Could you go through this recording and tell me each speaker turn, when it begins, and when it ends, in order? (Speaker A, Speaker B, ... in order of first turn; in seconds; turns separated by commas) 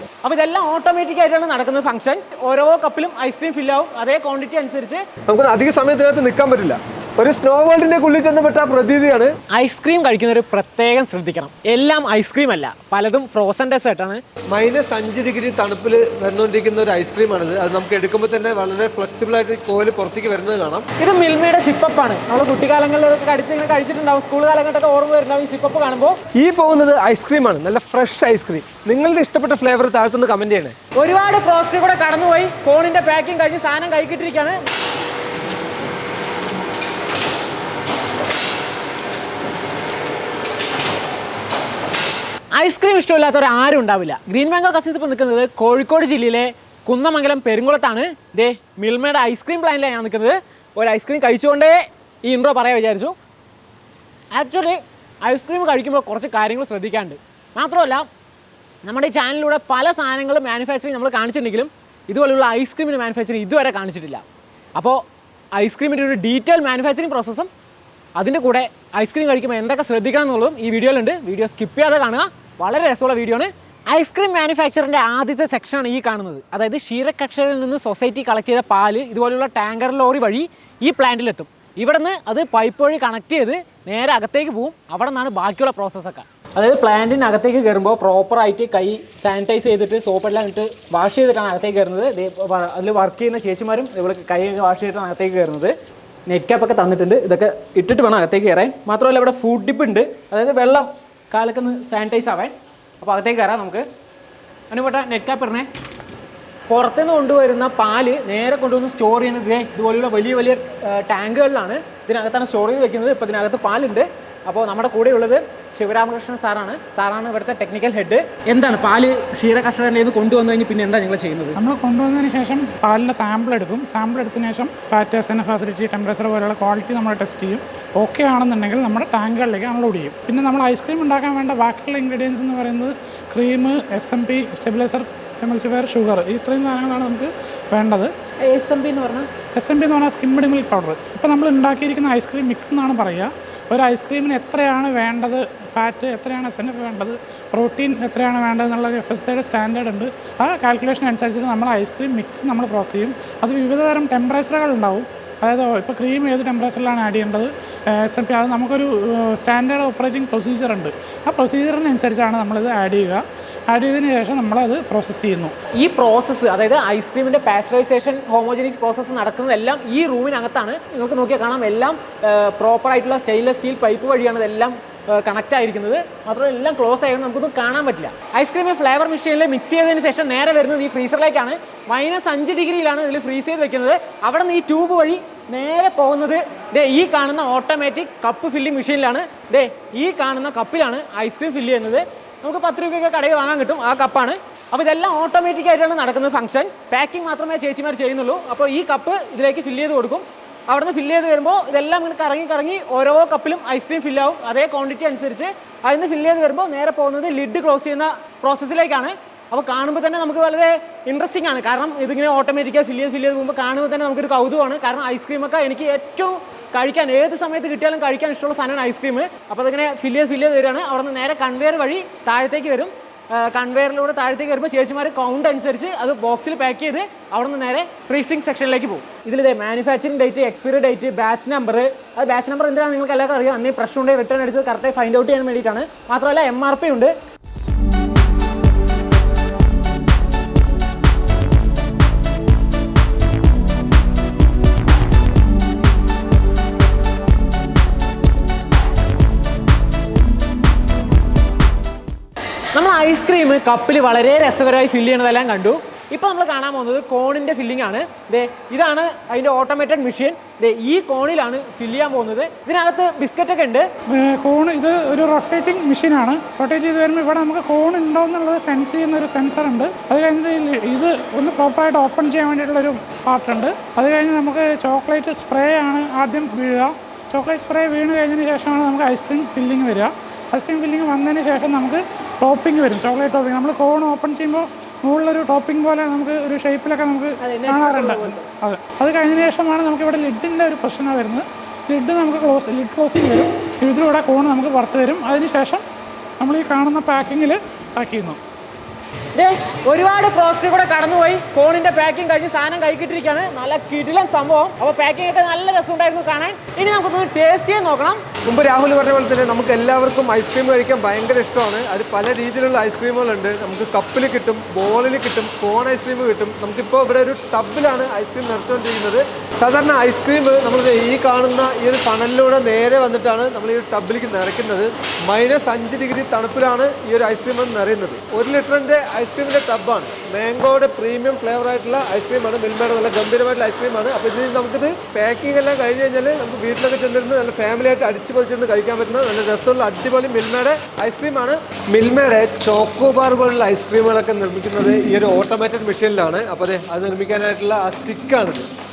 Speaker A: 0.2-5.0, Speaker B: 5.3-9.3, Speaker A: 9.5-14.2, Speaker B: 14.5-20.9, Speaker A: 21.0-26.2, Speaker B: 26.4-30.7, Speaker A: 30.9-34.6, Speaker A: 42.5-53.1, Speaker A: 54.3-58.1, Speaker A: 58.8-64.2, Speaker A: 64.8-65.0, Speaker A: 65.5-67.5, Speaker A: 68.2-95.7, Speaker A: 96.3-103.8, Speaker A: 104.7-105.7, Speaker A: 106.7-121.6, Speaker C: 121.5-138.1, Speaker A: 138.4-139.3, Speaker C: 139.5-165.5, Speaker A: 165.7-237.1, Speaker A: 252.7-263.9, Speaker C: 264.1-295.8, Speaker A: 287.4-288.5, Speaker C: 296.4-298.4, Speaker A: 299.3-308.2, Speaker B: 308.4-348.6